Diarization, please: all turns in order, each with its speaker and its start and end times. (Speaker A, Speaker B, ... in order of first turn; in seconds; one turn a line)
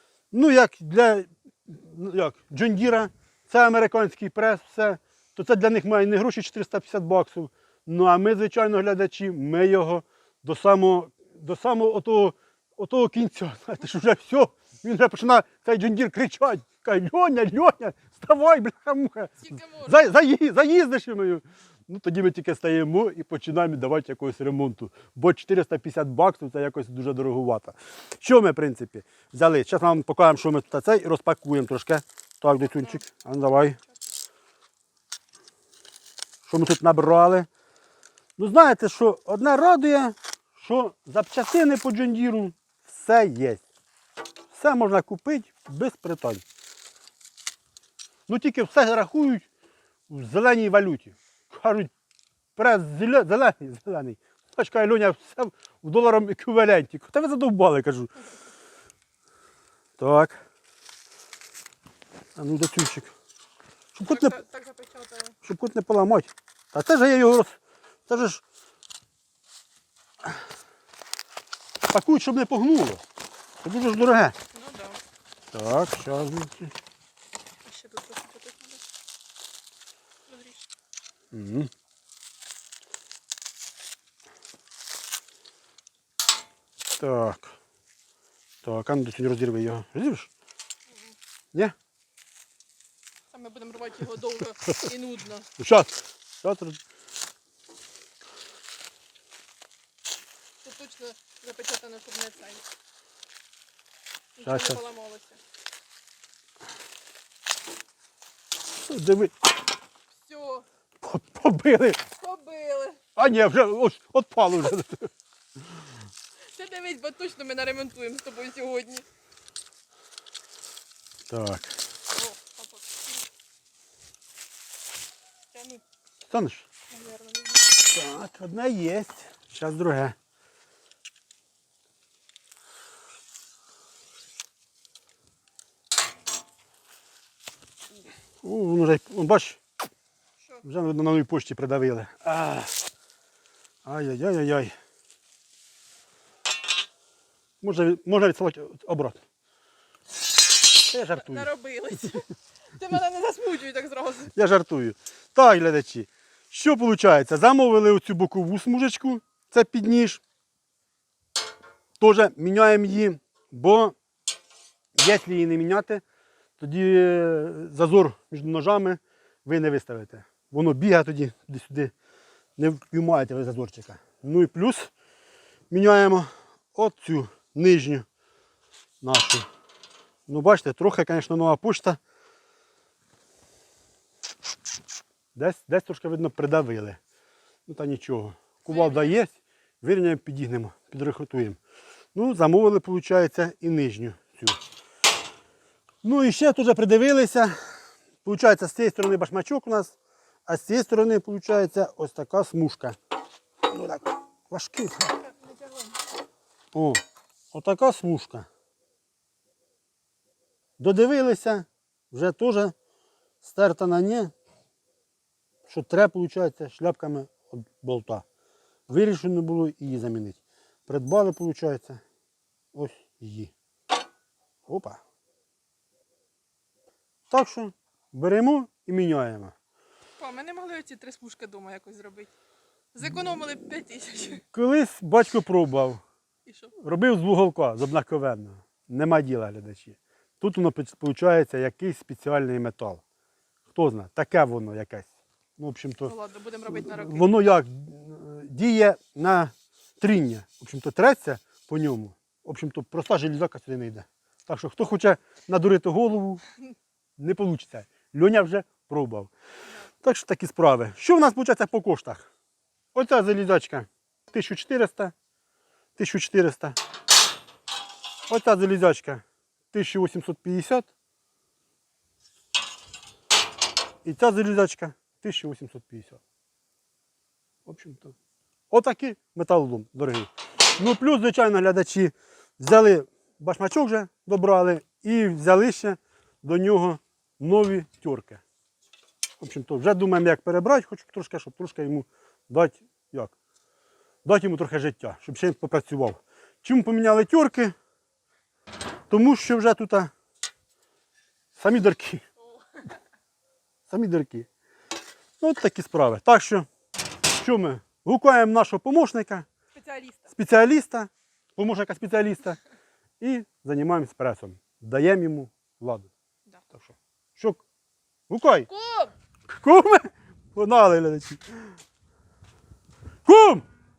Speaker A: 0.3-33.8
Speaker B: 19.4-20.0
Speaker A: 36.5-37.5
Speaker A: 38.4-43.6
Speaker A: 44.5-46.4
Speaker A: 48.3-49.5
Speaker A: 50.1-51.9
Speaker A: 52.6-58.1
Speaker A: 60.0-60.4
Speaker A: 62.4-63.1
Speaker A: 64.0-64.4
Speaker B: 64.1-65.4
Speaker A: 65.4-67.6
Speaker A: 68.1-68.4
Speaker A: 71.9-73.0
Speaker A: 73.6-74.3
Speaker B: 74.5-75.0
Speaker A: 75.5-76.7
Speaker B: 77.7-78.8
Speaker B: 80.3-80.6
Speaker A: 81.3-81.7
Speaker A: 87.0-87.6
Speaker A: 88.6-90.3
Speaker B: 90.9-91.2
Speaker B: 93.3-95.5
Speaker A: 95.6-96.8
Speaker B: 100.6-102.7
Speaker B: 104.4-105.4
Speaker A: 104.4-104.8
Speaker A: 108.8-109.3
Speaker B: 110.1-110.7
Speaker A: 111.0-112.0
Speaker B: 112.1-113.0
Speaker A: 113.2-115.1
Speaker B: 116.4-119.0
Speaker A: 121.3-121.7
Speaker B: 122.1-123.3
Speaker B: 125.5-125.8
Speaker A: 126.3-126.7
Speaker B: 126.9-127.8
Speaker A: 127.9-130.2
Speaker A: 138.4-139.6
Speaker A: 140.6-142.7
Speaker A: 143.8-144.8
Speaker A: 147.6-149.2
Speaker A: 150.8-151.5
Speaker B: 151.1-154.3
Speaker A: 154.3-160.2
Speaker A: 162.0-164.0
Speaker A: 165.0-166.0
Speaker A: 166.6-171.9
Speaker A: 172.6-174.9
Speaker A: 175.7-178.1
Speaker A: 179.0-179.5
Speaker A: 180.3-182.0
Speaker A: 185.3-187.0
Speaker A: 187.7-191.6
Speaker B: 188.7-189.2
Speaker A: 192.2-194.6
Speaker A: 196.0-197.6
Speaker A: 198.2-199.9
Speaker A: 200.5-203.0
Speaker A: 203.7-205.2
Speaker B: 205.2-205.9
Speaker A: 206.7-207.0
Speaker A: 207.5-208.5
Speaker A: 210.8-212.7
Speaker A: 213.4-214.3
Speaker A: 215.7-218.2
Speaker A: 218.9-222.0
Speaker A: 222.7-223.5
Speaker A: 224.7-225.0
Speaker A: 227.3-229.6
Speaker B: 230.2-232.3
Speaker B: 232.9-234.4
Speaker A: 234.5-236.0
Speaker B: 236.5-236.7
Speaker A: 236.8-243.0
Speaker A: 243.7-246.1
Speaker B: 246.0-247.4
Speaker A: 246.7-256.4
Speaker A: 257.2-259.3
Speaker A: 260.0-262.3
Speaker A: 262.9-265.1
Speaker A: 266.0-266.8
Speaker A: 268.3-270.9
Speaker A: 274.0-276.2
Speaker A: 277.7-278.1
Speaker A: 278.7-288.4
Speaker A: 289.4-293.3
Speaker A: 294.2-297.8
Speaker A: 299.1-300.1
Speaker A: 301.6-302.2
Speaker A: 303.9-304.5
Speaker A: 305.4-306.7
Speaker A: 307.4-309.5
Speaker B: 309.8-310.2
Speaker A: 310.3-312.6
Speaker A: 313.2-316.1
Speaker A: 316.7-317.6
Speaker A: 318.3-318.7
Speaker B: 318.7-319.1
Speaker A: 319.6-321.4
Speaker A: 323.3-323.6